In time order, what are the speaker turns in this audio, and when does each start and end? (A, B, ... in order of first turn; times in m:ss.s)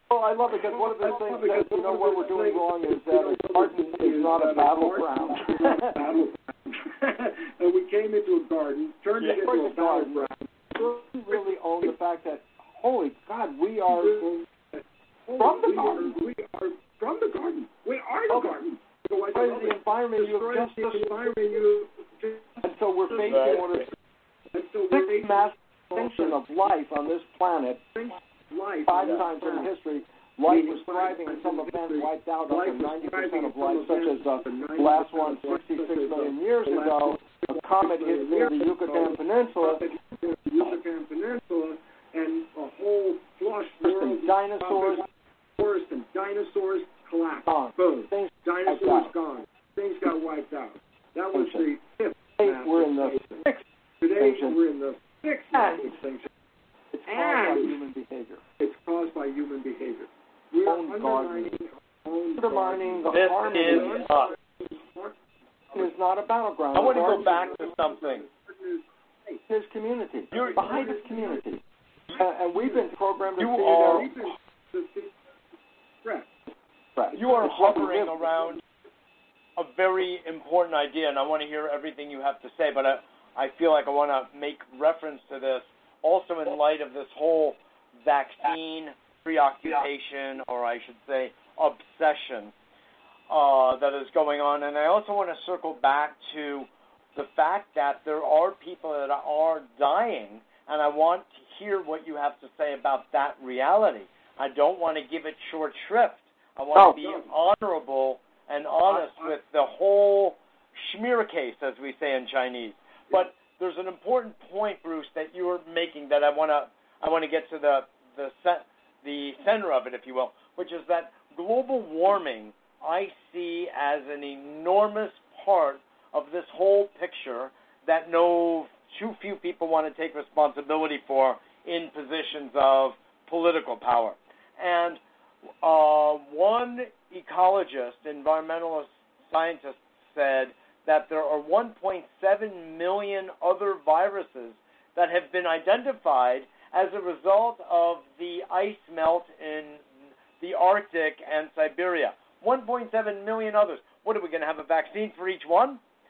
0:00.1-0:06.0 A
0:00.6-0:10.5 B
0:09.3-0:14.3 A
0:11.3-0:11.9 B
0:13.9-0:23.8 B
0:15.4-0:16.2 A
0:18.3-0:18.6 A
0:19.3-0:21.2 A
0:22.6-0:23.9 A
0:23.2-0:23.6 C
0:24.5-0:26.4 B
0:24.9-0:27.8 A
0:27.9-0:29.7 B
0:28.9-0:39.8 A
0:30.4-0:45.1 B
0:43.8-0:45.0 A
0:45.6-0:53.4 B
0:47.5-0:49.1 A
0:51.3-0:51.6 A
0:52.4-0:53.6 A
0:54.0-0:56.3 B
0:54.1-0:54.6 A
0:55.5-0:56.0 A
0:56.9-0:58.4 A
0:57.1-0:57.8 B
0:58.6-1:05.2 B
1:00.6-1:01.5 A
1:02.4-1:04.1 A
1:03.1-1:04.3 C
1:05.7-1:07.4 A
1:06.7-1:08.2 C
1:06.7-1:09.4 B
1:09.5-1:11.6 A
1:10.3-1:10.8 C
1:10.3-1:11.4 B
1:12.1-1:14.1 A
1:12.6-1:12.9 B
1:13.4-1:14.1 C
1:13.8-1:15.2 B
1:16.0-1:16.3 B
1:17.0-1:18.1 A
1:17.1-1:18.5 B
1:17.1-1:18.6 C
1:19.6-1:32.5 C
1:33.3-2:15.0 C
1:46.7-1:47.0 A
1:47.0-1:47.3 B
1:48.8-1:49.3 B
2:15.6-2:29.8 C
2:30.4-2:35.8 C